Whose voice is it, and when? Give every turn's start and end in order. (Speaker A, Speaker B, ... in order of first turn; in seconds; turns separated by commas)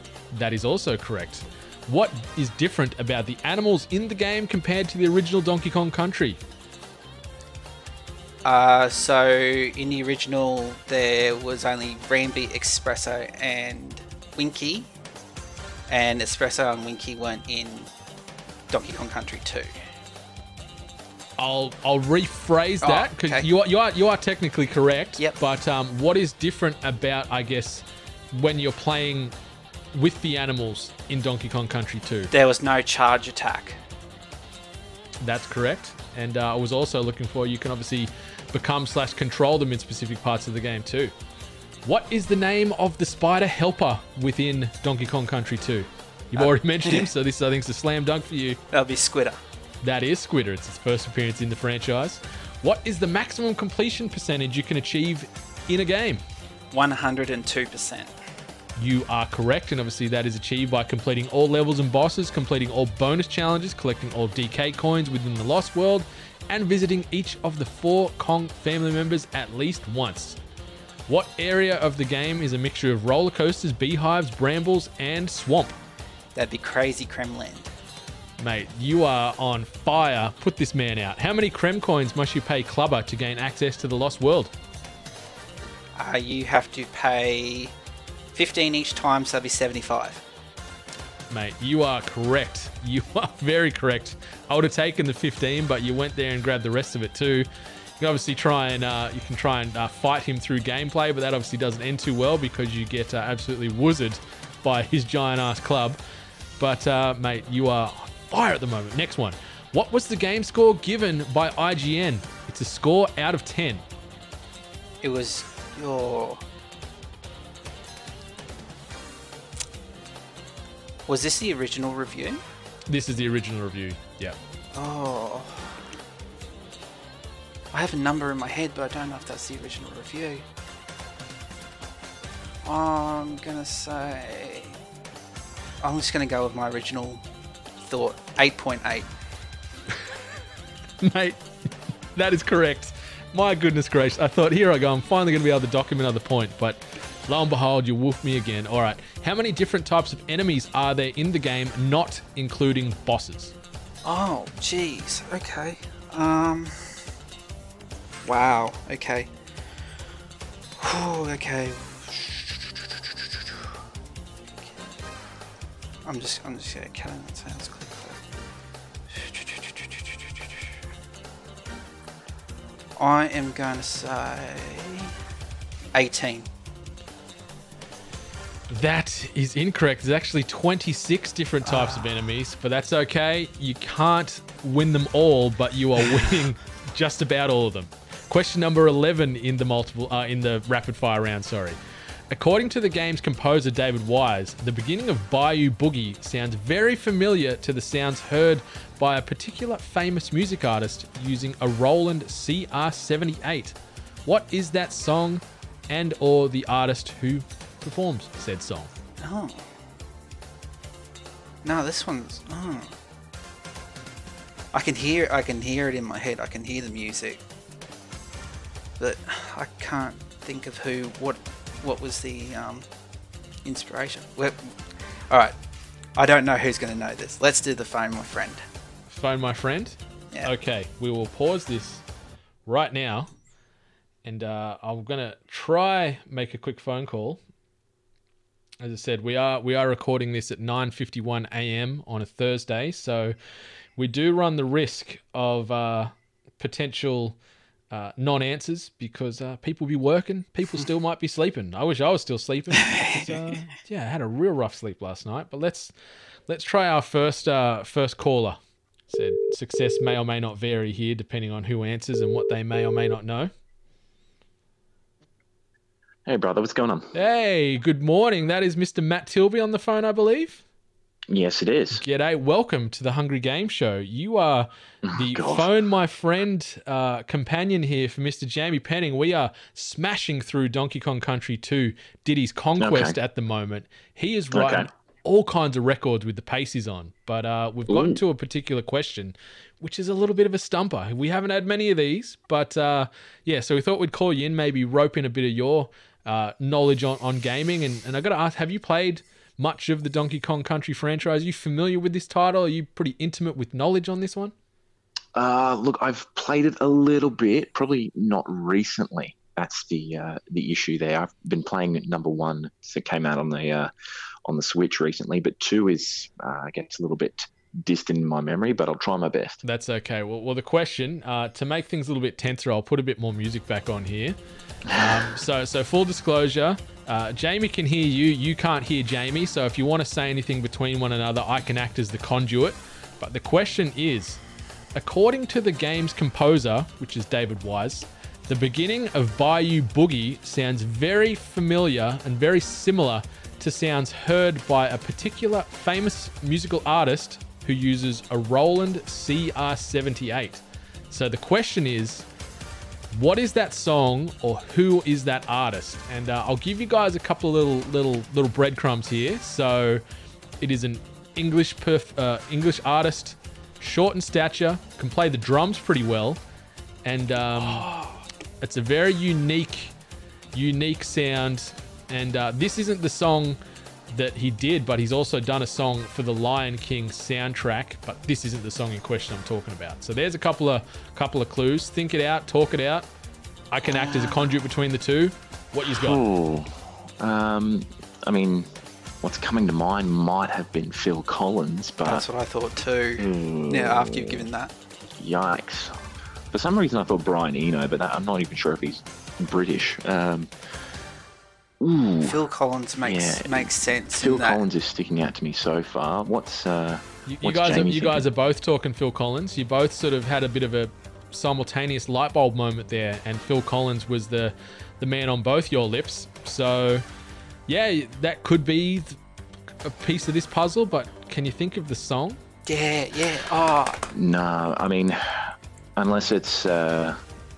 Speaker A: 0.3-6.4, Speaker B: 8.4-14.9, Speaker B: 15.9-17.9, Speaker B: 18.7-19.7, Speaker A: 21.4-29.3, Speaker B: 22.8-23.5, Speaker A: 29.9-32.3, Speaker B: 32.3-33.8, Speaker A: 35.2-41.1, Speaker A: 41.8-48.6, Speaker B: 46.4-47.1, Speaker B: 48.7-49.4, Speaker A: 49.8-56.2, Speaker B: 56.7-58.1, Speaker A: 58.8-70.4, Speaker A: 71.1-75.8, Speaker B: 76.3-77.7, Speaker A: 78.4-84.5, Speaker B: 86.0-87.7, Speaker B: 88.3-90.2, Speaker A: 91.3-97.5, Speaker A: 98.0-106.0, Speaker A: 106.6-113.8, Speaker B: 115.0-116.4, Speaker B: 121.1-122.4, Speaker A: 122.9-124.4, Speaker B: 124.7-125.8, Speaker B: 127.7-130.4, Speaker B: 132.6-134.8, Speaker B: 135.8-137.2, Speaker B: 137.8-139.1, Speaker A: 141.0-141.4, Speaker A: 142.1-153.5, Speaker B: 154.0-157.0, Speaker B: 158.2-159.3, Speaker B: 160.8-163.4, Speaker B: 164.6-164.9, Speaker B: 166.0-168.2, Speaker B: 169.1-170.3, Speaker B: 173.0-175.1, Speaker B: 175.9-176.5, Speaker A: 178.7-191.8, Speaker B: 181.7-182.1, Speaker A: 192.3-208.9, Speaker B: 209.2-209.7, Speaker B: 211.6-212.9, Speaker B: 214.7-217.4, Speaker B: 219.0-222.8, Speaker B: 223.6-224.7, Speaker B: 225.3-225.5, Speaker B: 226.2-228.6, Speaker A: 229.1-232.0, Speaker A: 232.7-233.3, Speaker A: 234.2-237.4, Speaker A: 238.8-243.3, Speaker A: 243.9-247.4, Speaker A: 247.9-255.9, Speaker B: 252.9-253.3, Speaker A: 256.5-258.6, Speaker A: 259.1-263.5, Speaker C: 266.3-267.1, Speaker A: 267.1-270.6, Speaker C: 271.3-272.0, Speaker A: 271.9-304.5, Speaker C: 275.0-275.7, Speaker C: 282.8-283.1, Speaker C: 284.5-284.9, Speaker C: 287.9-288.2, Speaker C: 305.4-313.9, Speaker C: 314.4-319.6, Speaker A: 319.6-324.4, Speaker C: 324.9-325.4, Speaker A: 324.9-334.4, Speaker A: 334.9-352.2, Speaker A: 353.1-360.0, Speaker A: 360.6-366.4, Speaker A: 367.0-367.9, Speaker B: 367.6-368.2, Speaker A: 368.6-369.9, Speaker A: 370.5-373.6, Speaker A: 374.1-383.1, Speaker A: 383.7-386.2, Speaker B: 383.8-384.5, Speaker C: 385.9-388.7, Speaker C: 389.2-392.2, Speaker B: 392.0-394.7, Speaker C: 393.2-394.5, Speaker C: 395.2-400.5, Speaker C: 401.8-402.4, Speaker B: 402.2-404.6, Speaker C: 403.0-408.2, Speaker A: 407.3-417.0, Speaker A: 417.7-419.2, Speaker A: 419.8-422.4, Speaker B: 422.6-424.0, Speaker C: 424.1-427.2